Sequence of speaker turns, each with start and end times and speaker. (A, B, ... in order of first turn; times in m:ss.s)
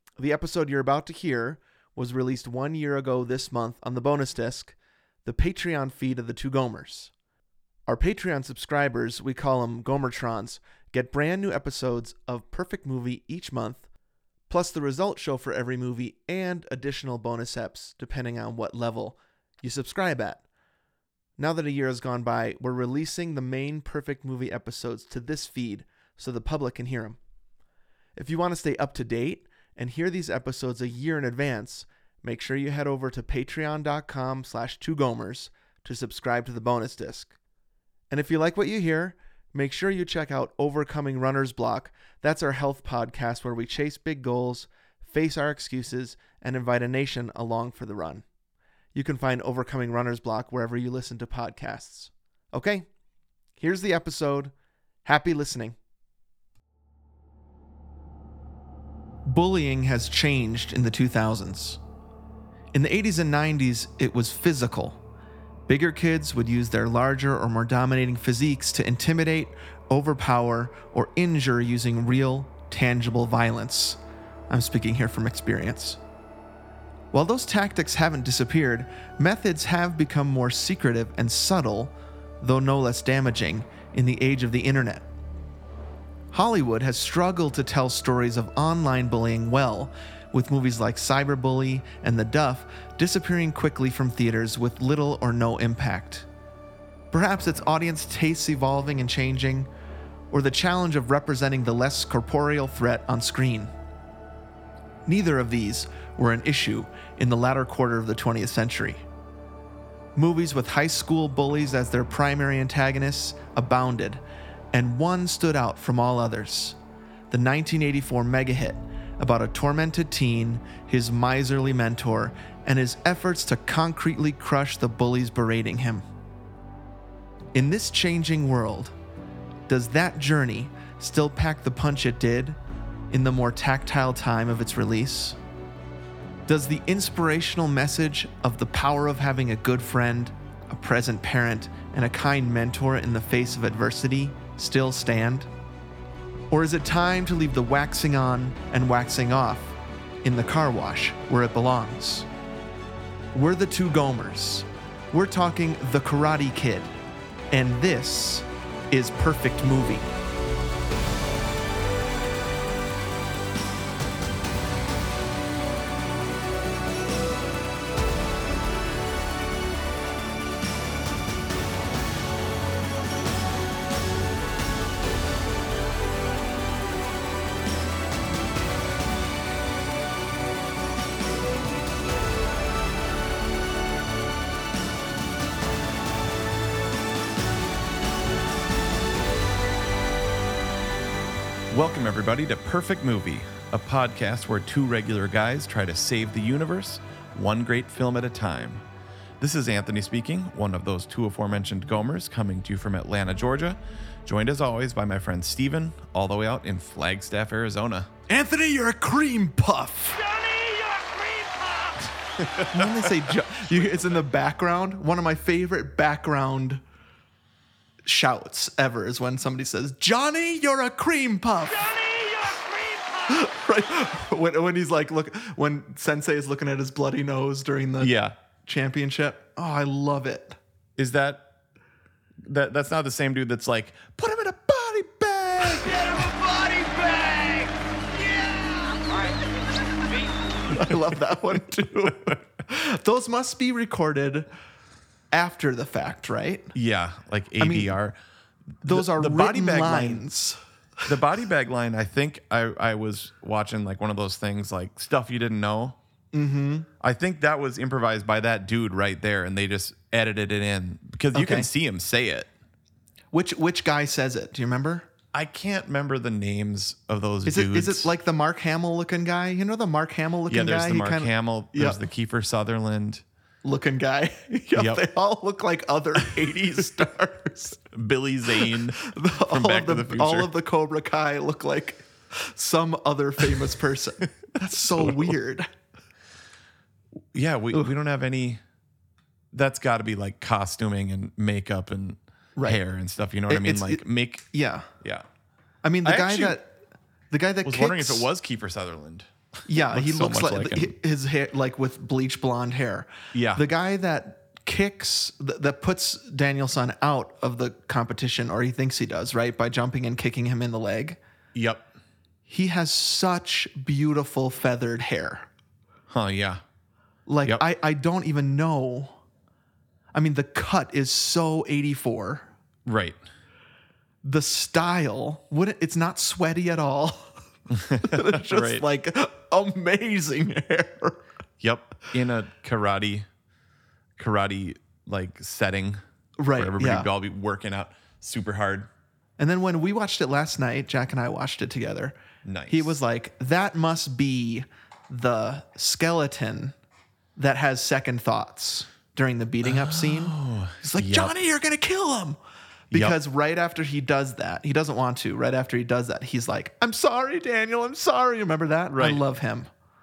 0:00.2-0:04.7 A
0:05.2-0:07.1 A
0:07.9-0:13.8 A
0:14.5-0:20.4 A
0:21.4-0:27.2 A
0:28.2-0:37.3 A
0:38.1-0:48.2 A
0:48.9-0:52.9 A
0:53.6-0:54.5 A
0:55.0-0:55.8 A
0:59.2-1:01.8 A
1:02.7-1:05.0 A
1:05.7-1:14.0 A
1:14.5-1:16.0 A
1:17.1-1:25.1 A
1:26.3-1:36.3 A
1:37.1-1:39.7 A
1:40.3-1:43.7 A
1:45.0-1:49.0 A
1:50.2-1:56.8 A
1:57.3-2:06.0 A
2:07.5-2:08.9 A
2:09.7-2:12.6 A
2:13.1-2:15.4 A
2:16.5-2:25.5 A
2:26.5-2:32.3 A
2:33.3-2:36.9 A
2:37.5-2:40.1 A
3:11.7-3:18.8 B
3:19.4-3:28.1 B
3:28.3-3:30.2 A
3:30.2-3:32.0 C
3:32.5-3:33.1 B
3:32.7-3:36.8 A
3:38.0-3:41.9 A
3:41.8-3:43.2 C
3:43.3-3:50.6 A
3:48.0-3:48.3 B
3:51.0-3:51.5 B
3:52.4-3:56.1 B
3:56.1-3:59.4 C
4:00.7-4:04.5 A
4:05.3-4:06.7 A
4:06.7-4:08.2 B
4:07.6-4:08.0 A
4:08.8-4:10.2 B
4:08.8-4:10.6 A
4:11.0-4:16.0 B
4:16.3-4:16.9 A
4:17.0-4:22.5 B
4:21.3-4:21.7 A
4:23.3-4:25.1 A
4:25.3-4:28.1 B
4:27.4-4:32.0 A
4:30.5-4:33.2 B
4:33.6-4:37.8 A
4:34.7-4:35.0 B
4:37.8-4:40.5 B
4:38.7-4:45.7 A
4:45.0-4:45.3 B
4:47.3-4:48.6 B
4:49.5-4:54.5 B
4:53.5-4:54.9 A
4:55.0-4:55.2 B
4:55.8-4:56.7 A
4:56.0-4:56.6 B
4:57.3-4:58.3 A
4:57.6-5:00.9 B
4:59.7-5:11.2 A
5:03.3-5:03.7 B
5:11.5-5:11.9 B
5:12.5-5:15.5 A
5:16.1-5:16.6 B
5:17.3-5:19.2 A
5:20.1-5:22.5 A
5:22.8-5:23.2 B
5:24.2-5:27.3 A
5:27.7-5:28.8 B
5:27.9-5:31.2 A
5:31.6-5:33.2 B
5:34.2-5:36.0 B
5:36.4-5:37.1 A
5:36.5-5:38.9 B
5:39.4-5:42.2 A
5:42.4-5:43.0 B
5:42.7-5:46.7 A
5:47.4-5:52.4 A
5:49.6-5:51.3 B
5:52.9-5:53.2 B
5:52.9-5:59.7 A
5:58.9-5:59.2 B